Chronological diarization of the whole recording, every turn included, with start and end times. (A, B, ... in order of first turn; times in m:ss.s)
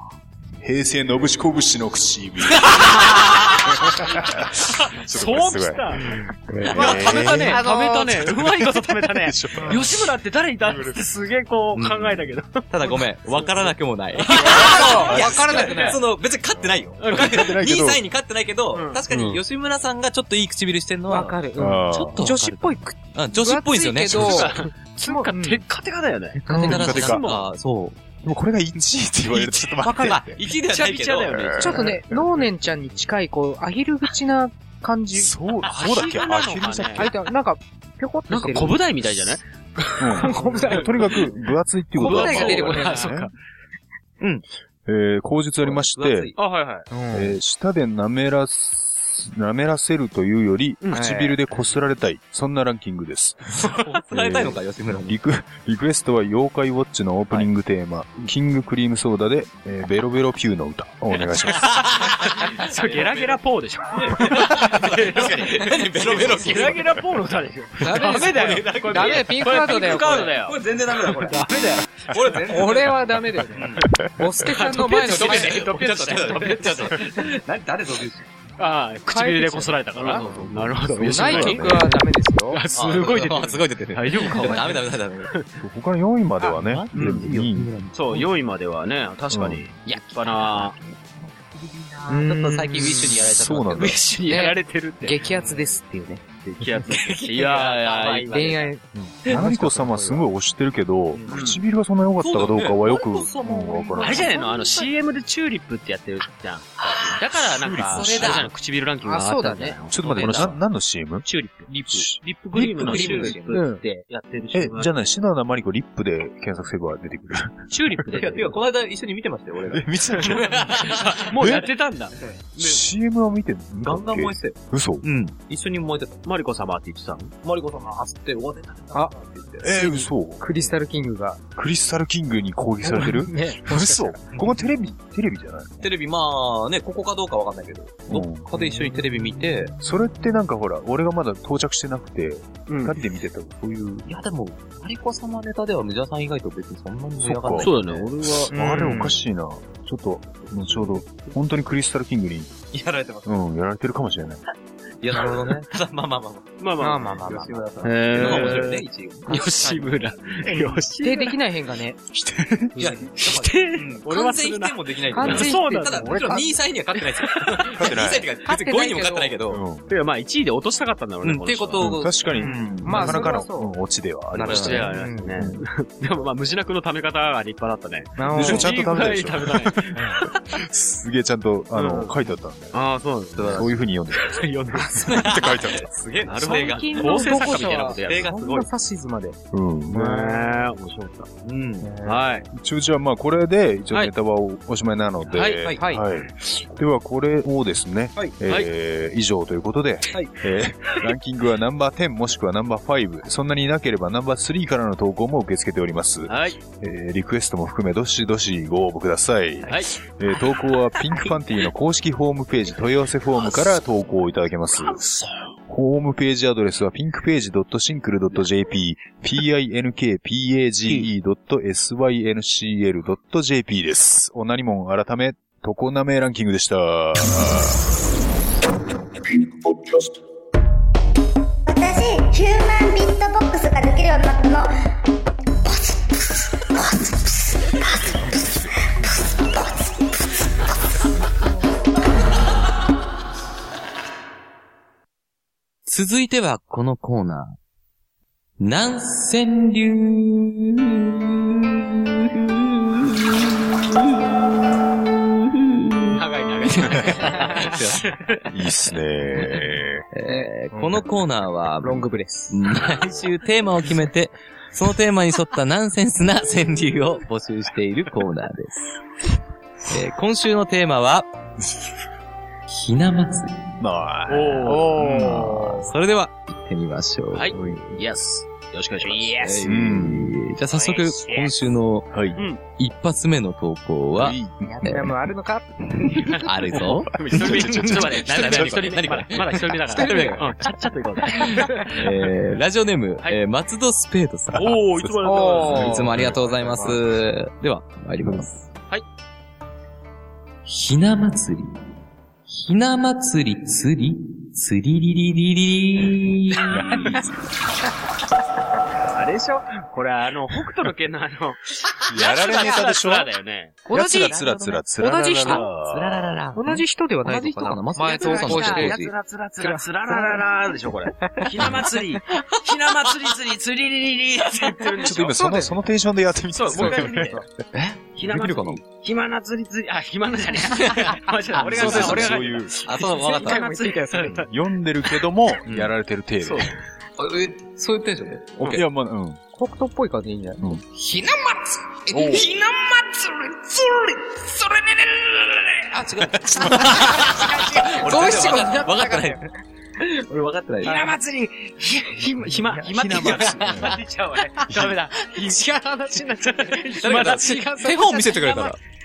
0:00.6-0:07.6 A
0:04.8-0:06.1 B
0:06.5-0:07.6 C
0:06.7-0:13.7 B
0:07.4-0:07.9 D
0:08.2-0:10.1 A
0:10.6-0:11.0 A
0:11.7-0:24.6 C
0:14.2-0:15.8 B
0:14.4-0:16.0 D
0:14.5-0:15.9 A
0:16.5-0:18.0 A
0:17.0-0:17.5 B
0:18.7-0:19.0 B
0:19.1-0:19.4 A
0:21.1-0:25.6 D
0:21.6-0:22.2 A
0:24.1-0:27.5 B
0:26.5-0:26.8 D
0:26.5-0:28.0 C
0:26.6-0:27.2 A
0:28.2-0:30.4 A
0:29.4-0:31.8 C
0:29.9-0:30.1 D
0:30.6-0:31.9 B
0:31.3-0:32.0 A
0:31.6-0:35.3 D
0:35.1-0:37.1 A
0:35.6-0:37.1 B
0:37.0-0:38.8 D
0:38.3-0:41.2 B
0:40.0-0:43.3 A
0:40.2-0:41.3 D
0:42.0-0:43.1 D
0:42.0-0:43.3 B
0:44.8-0:46.3 A
0:45.6-0:46.4 C
0:46.4-0:46.9 B
0:46.9-0:47.4 D
0:47.1-1:01.9 A
0:50.8-0:51.1 B
0:50.9-0:51.4 D
0:53.6-0:55.2 C
1:01.4-1:03.4 C
1:02.0-1:11.7 B
1:03.9-1:06.9 C
1:07.8-1:13.9 C
1:07.8-1:10.3 D
1:12.5-1:15.7 D
1:14.4-1:17.3 B
1:14.7-1:18.3 C
1:18.6-1:25.5 B
1:19.1-1:20.2 D
1:20.0-1:21.7 C
1:20.1-1:21.9 A
1:21.0-1:22.6 D
1:22.7-1:25.3 C
1:25.6-1:27.7 A
1:26.4-1:28.3 C
1:26.9-1:27.3 B
1:27.9-1:30.8 B
1:29.3-1:29.6 A
1:29.8-1:34.1 C
1:32.1-1:33.2 D
1:33.2-1:34.0 A
1:33.7-1:35.3 B
1:34.3-1:36.2 D
1:36.4-1:38.7 B
1:36.9-1:38.7 C
1:38.3-1:40.2 D
1:39.0-1:44.3 A
1:41.3-1:41.6 B
1:42.2-1:44.4 C
1:44.0-1:50.6 B
1:44.2-1:44.8 D
1:46.8-1:48.5 C
1:47.4-1:48.5 A
1:49.0-1:49.8 D
1:49.9-1:51.3 A
1:50.1-1:50.5 C
1:51.2-1:54.9 B
1:51.7-1:53.6 C
1:51.9-1:53.4 A
1:53.5-1:53.8 D
1:54.5-1:57.7 A
1:57.7-1:58.6 B
1:58.1-2:01.3 C
1:59.6-2:01.7 A
2:00.8-2:02.2 B
2:02.6-2:02.8 C
2:02.6-2:05.1 A
2:03.8-2:06.2 C
2:06.2-2:07.3 B
2:07.4-2:09.7 C
2:09.6-2:10.4 A
2:09.7-2:11.4 D
2:11.6-2:15.9 A
2:12.8-2:14.2 D
2:15.8-2:19.8 C
2:18.1-2:18.5 A
2:19.8-2:24.1 A
2:22.7-2:23.0 B
2:24.0-2:28.5 C
2:27.2-2:32.6 A
2:27.6-2:28.5 B
2:28.5-2:29.2 D
2:30.6-2:31.1 C
2:32.7-2:33.4 C
2:33.2-2:34.4 A
2:35.0-2:39.8 C
2:36.6-2:37.1 B
2:36.8-2:37.6 D
2:37.8-2:41.4 B
2:38.3-2:38.6 D
2:39.3-2:39.8 D
2:40.4-2:42.0 D
2:42.1-2:42.8 A
2:42.8-2:46.4 B
2:42.8-2:49.6 C
2:45.1-2:46.4 D
2:46.9-2:47.7 B
2:47.7-2:48.3 A
2:48.4-2:49.4 D
2:49.5-2:49.9 A
2:49.9-2:51.9 B
2:51.2-2:53.4 C
2:51.8-2:55.6 A
2:52.4-2:53.7 D
2:54.3-2:54.9 C
2:54.4-3:00.0 B
2:54.9-2:55.3 D
2:58.2-2:58.7 D
2:58.3-3:02.8 A
3:01.7-3:02.1 B
3:02.7-3:05.4 B
3:03.3-3:03.7 C
3:03.5-3:04.4 A
3:05.0-3:08.7 C
3:05.1-3:05.9 A
3:06.2-3:08.3 B
3:06.4-3:09.4 D
3:09.5-3:10.1 A
3:09.9-3:11.3 B
3:09.9-3:10.7 D
3:11.4-3:11.9 C
3:11.8-3:12.2 D
3:12.0-3:12.5 B
3:12.5-3:35.2 A
3:15.3-3:15.6 B
3:15.8-3:16.0 D
3:26.3-3:26.6 B
3:29.6-3:29.9 B
3:35.7-3:47.8 A
3:49.4-3:50.0 E
3:51.6-3:54.7 E
3:56.8-3:58.0 E
4:05.9-4:07.6 C
4:08.6-4:18.5 C
4:16.0-4:18.4 B
4:16.8-4:17.1 A
4:18.5-4:20.0 A
4:19.4-4:29.0 C
4:20.2-4:21.1 D
4:21.8-4:22.6 D
4:29.8-4:31.3 C
4:32.7-4:33.7 C
4:33.8-4:35.6 A
4:34.3-4:34.9 B
4:34.7-4:35.8 D
4:34.9-4:37.9 C
4:37.3-4:39.8 B
4:37.5-4:37.8 A
4:39.0-4:42.2 C
4:39.6-4:40.4 A
4:40.7-4:41.5 B
4:42.1-4:42.4 A
4:42.7-4:45.1 C
4:44.1-4:44.7 A
4:44.6-4:46.3 D
4:46.0-4:50.5 C
4:46.3-4:52.0 B
4:46.8-4:49.2 A
4:49.9-4:50.5 D
4:51.4-4:51.8 D
4:51.7-4:58.7 C
4:54.5-4:56.3 B
4:55.2-4:56.2 D
4:55.7-4:57.0 A
4:58.2-4:58.5 A
5:00.6-5:01.8 C
5:02.5-5:07.2 C
5:06.7-5:07.3 A
5:09.1-5:13.8 B
5:12.1-5:13.3 A
5:13.8-5:14.3 D
5:13.9-5:16.3 A
5:13.9-5:14.8 C
5:15.0-5:15.7 D
5:15.4-5:19.1 C
5:16.5-5:19.0 D
5:18.0-5:25.4 B
5:19.6-5:20.4 D
5:25.0-5:27.4 A
5:25.1-5:25.7 D
5:26.5-5:27.4 B
5:26.7-5:27.4 D
5:27.7-5:28.8 C
5:28.2-5:34.5 B
5:30.7-5:33.6 C
5:31.6-5:32.8 A
5:33.2-5:34.4 D
5:34.3-5:36.7 A
5:35.6-5:35.9 C
5:36.4-5:36.7 B
5:37.2-5:38.8 C
5:38.6-5:39.4 A
5:39.5-5:44.8 D
5:41.0-5:41.5 C
5:42.1-5:42.5 A
5:42.1-5:43.0 C
5:45.9-5:49.4 C
5:46.4-5:47.3 A
5:46.7-5:49.4 D
5:50.0-5:51.1 C
5:50.8-5:57.6 B
5:52.6-5:54.0 A
5:53.1-5:53.9 C
5:54.7-5:54.9 A
5:55.4-5:58.8 D
5:57.0-5:58.8 C